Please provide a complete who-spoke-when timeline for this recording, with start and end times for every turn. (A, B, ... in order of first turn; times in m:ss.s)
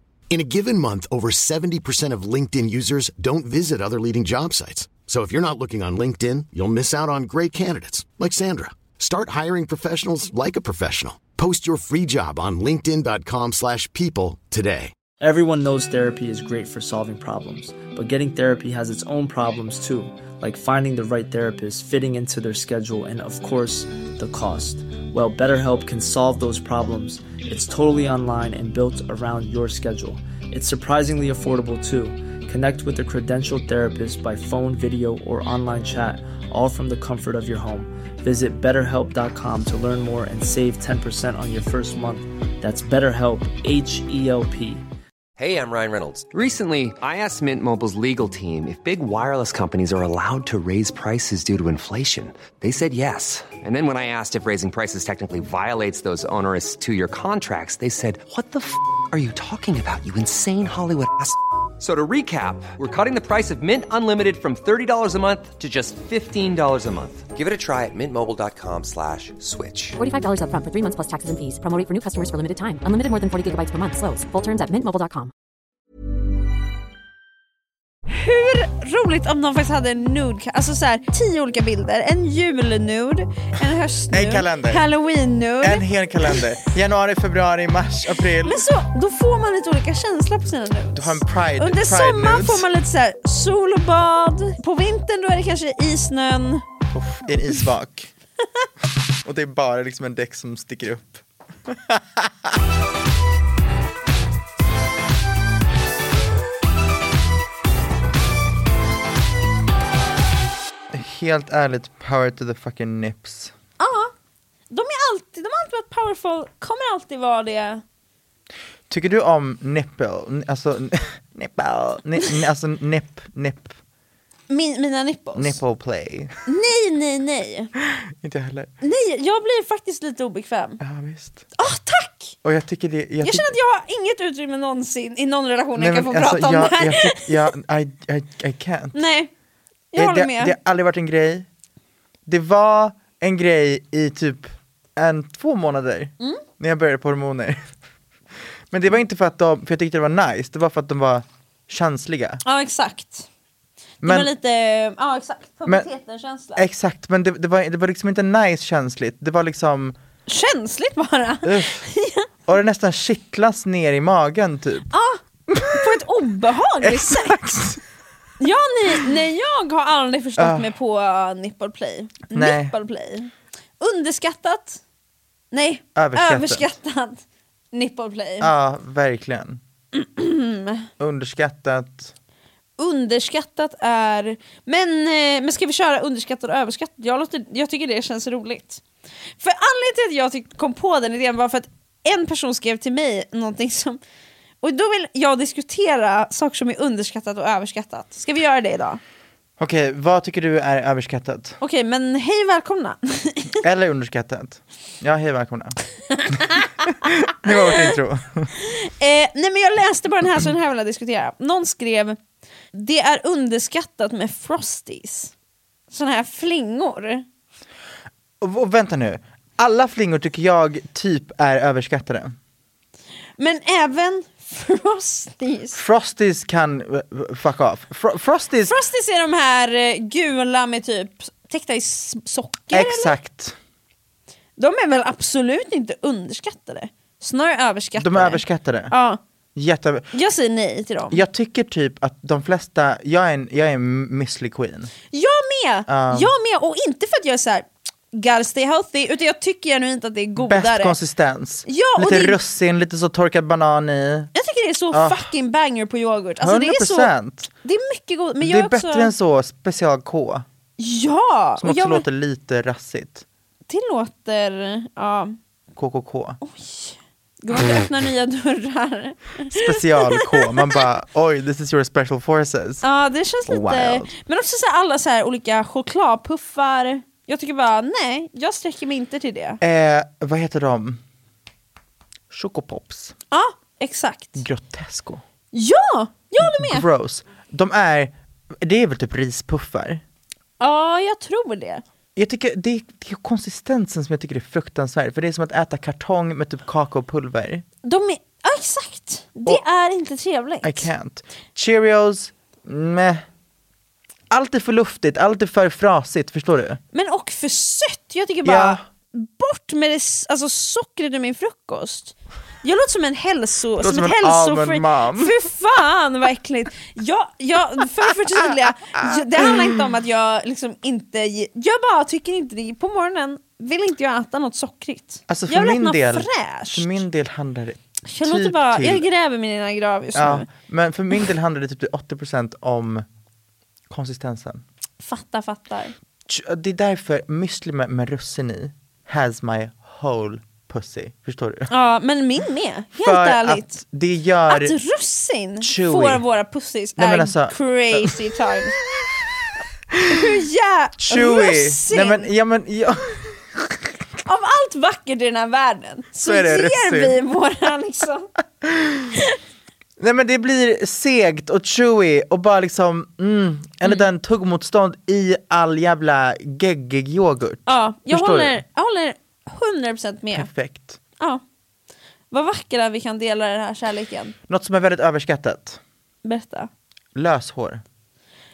0:00.3-0:14.9 A
0:15.2-0:44.8 B
0:45.4-1:10.0 C
1:10.0-1:15.3 D
1:18.1-1:26.5 E
1:24.1-1:24.8 F
1:25.6-1:28.6 F
1:28.4-1:36.6 E
1:30.9-1:32.7 F
1:36.9-1:38.1 F
1:39.2-1:42.5 F
1:50.9-1:53.5 F
1:53.8-1:54.1 E
1:54.7-1:57.8 E
1:58.9-2:03.8 F
2:04.5-2:05.6 E
2:05.3-2:06.3 F
2:06.4-2:07.7 E
2:07.8-2:08.7 F
2:08.8-2:10.8 E
2:10.8-2:11.4 F
2:11.6-2:12.4 E
2:12.4-2:13.5 F
2:13.2-2:17.3 E
2:15.8-2:19.0 F
2:18.9-2:19.3 E
2:19.9-2:20.6 E
2:20.0-2:21.5 F
2:22.2-2:27.7 F
2:28.7-2:32.4 F
2:32.4-2:33.3 E
2:34.0-2:34.3 F
2:34.0-2:36.6 E
2:36.6-2:39.9 F
2:40.3-2:42.3 E
2:41.4-2:41.8 F
2:42.5-2:44.9 F
2:44.9-2:47.6 E
2:45.5-2:46.0 F
2:46.8-2:47.8 F
2:48.4-2:54.8 E
2:50.4-2:50.7 F
2:52.3-2:52.7 F
2:55.5-2:57.2 E
2:55.9-2:56.7 F
2:57.7-2:58.5 E
2:58.4-2:59.6 F
2:59.9-3:00.9 E
3:01.0-3:02.1 F
3:02.8-3:08.8 E
3:09.4-3:14.0 E
3:14.6-3:19.0 E
3:19.6-3:21.6 F
3:21.6-3:23.6 E
3:23.6-3:25.8 F
3:26.2-3:26.9 E
3:26.9-3:28.5 F
3:27.5-3:27.9 E
3:28.6-3:32.2 E
3:32.7-3:35.3 E
3:35.9-3:37.2 E
3:38.4-3:42.4 F
3:43.4-3:45.8 E
3:45.7-3:48.8 F
3:48.7-3:53.2 E
3:52.7-3:53.6 F
3:54.6-3:59.2 E
3:58.0-3:58.9 F
3:59.5-4:00.1 F
4:00.1-4:01.2 E
4:01.1-4:04.9 F
4:05.1-4:11.0 E
4:05.9-4:06.3 F
4:10.4-4:14.3 F
4:11.6-4:12.4 E
4:14.3-4:17.1 E
4:14.9-4:15.3 F
4:16.4-4:17.5 F
4:17.6-4:19.1 E
4:18.4-4:20.4 F
4:20.8-4:22.0 E
4:21.6-4:23.2 F
4:23.7-4:25.4 E
4:25.7-4:26.4 F
4:26.4-4:30.8 E
4:29.5-4:32.8 F
4:32.8-4:39.6 E
4:33.5-4:34.1 F
4:39.6-4:41.0 F
4:42.3-4:43.1 F
4:43.3-4:44.4 E
4:44.4-4:45.2 F
4:45.5-4:46.8 E
4:46.4-4:50.0 F
4:50.6-4:51.8 E
4:52.2-4:57.6 F
4:57.8-5:00.9 E
5:00.6-5:03.2 F
5:04.3-5:06.8 F
5:06.9-5:27.0 E
5:08.4-5:08.8 F
5:13.8-5:15.4 F
5:18.8-5:19.8 F
5:25.3-5:29.1 F
5:28.1-5:30.5 E
5:30.1-5:33.0 F
5:33.9-5:34.6 F
5:35.0-5:35.9 E
5:36.3-5:41.7 F
5:41.7-5:43.7 E
5:42.9-5:44.8 F
5:44.5-5:48.8 E
5:45.6-5:46.2 F
5:47.0-5:48.2 F
5:49.9-5:50.3 F
5:50.1-5:52.3 E
5:51.0-5:53.4 F
5:54.2-5:58.3 E
5:56.2-5:57.2 F
5:58.6-5:59.1 F
6:00.0-6:08.6 F
6:07.7-6:10.5 E
6:10.3-6:11.0 F
6:12.3-6:14.3 E
6:14.5-6:15.8 F
6:16.2-6:16.7 E
6:17.1-6:17.8 F